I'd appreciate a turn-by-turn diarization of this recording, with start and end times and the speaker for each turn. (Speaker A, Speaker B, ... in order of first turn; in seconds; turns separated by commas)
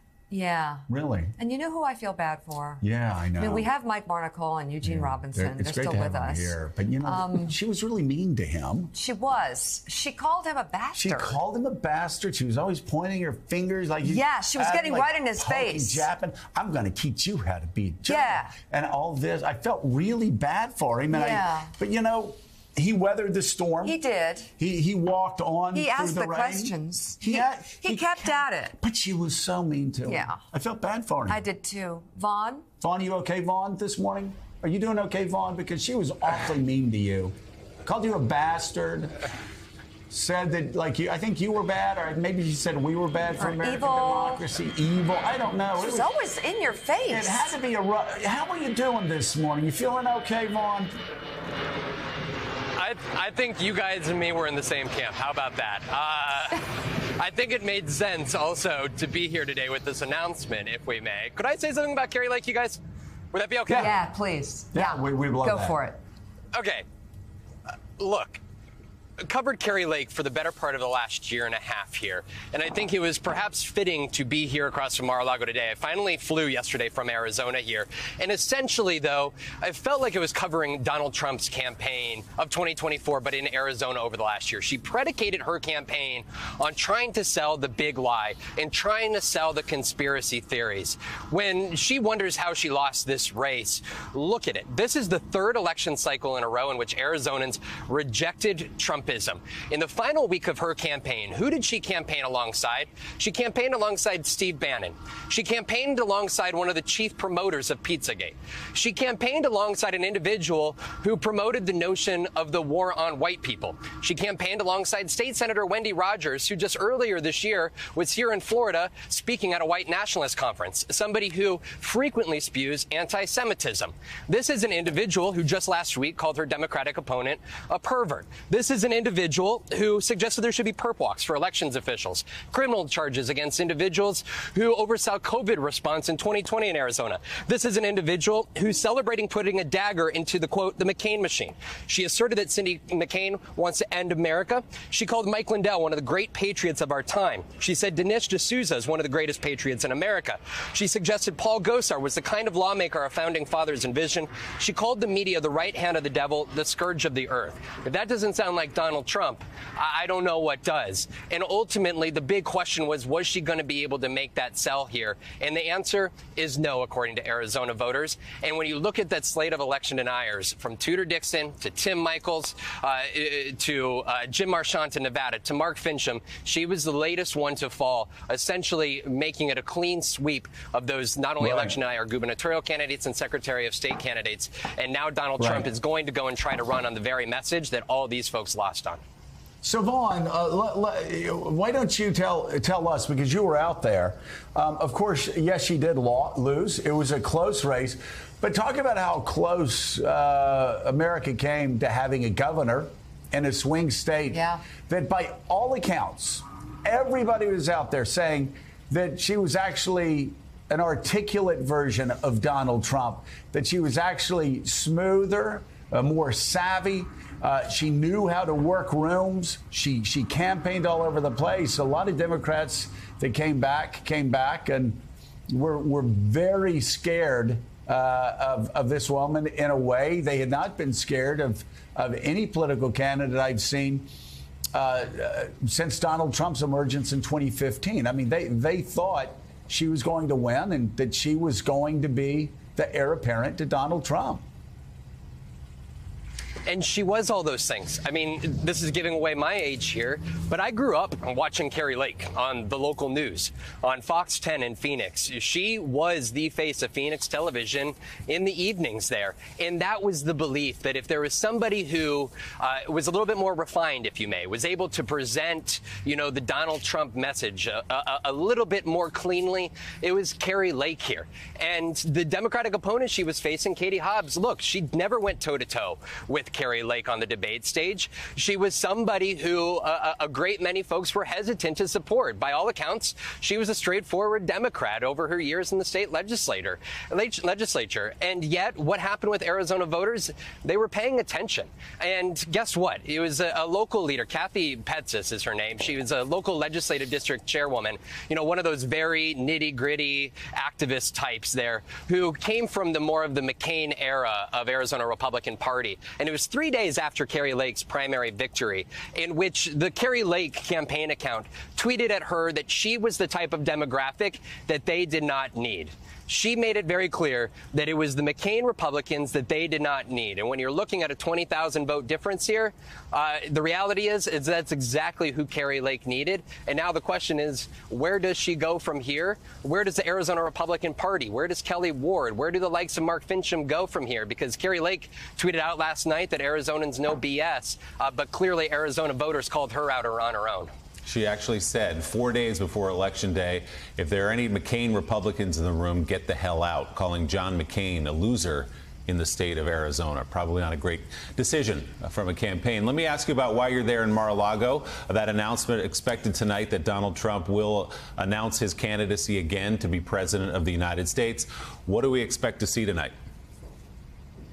Speaker A: 0.3-0.9, Speaker B: 0.9-1.4, Speaker A: 1.4-2.8, Speaker B: 2.8-3.7, Speaker A: 3.4-7.5, Speaker B: 4.8-8.9, Speaker A: 8.9-11.4, Speaker B: 10.9-24.0, Speaker A: 14.0-16.1, Speaker A: 18.1-18.6, Speaker A: 21.1-21.7, Speaker A: 23.8-24.5, Speaker B: 24.6-31.4, Speaker A: 25.7-28.8, Speaker A: 30.1-30.4, Speaker A: 31.3-32.6, Speaker B: 32.8-39.2, Speaker B: 40.1-46.1, Speaker A: 43.4-44.4, Speaker A: 45.8-47.5, Speaker B: 47.1-51.0, Speaker C: 52.8-62.8, Speaker C: 63.3-63.9, Speaker B: 63.7-63.9, Speaker A: 63.7-66.0, Speaker B: 64.7-65.8, Speaker C: 66.5-66.8, Speaker C: 67.7-68.4, Speaker C: 69.2-189.0, Speaker B: 181.4-181.8, Speaker B: 185.4-185.7, Speaker B: 189.6-234.1, Speaker A: 204.3-204.6, Speaker B: 234.7-244.4, Speaker C: 246.7-340.7, Speaker D: 341.1-363.1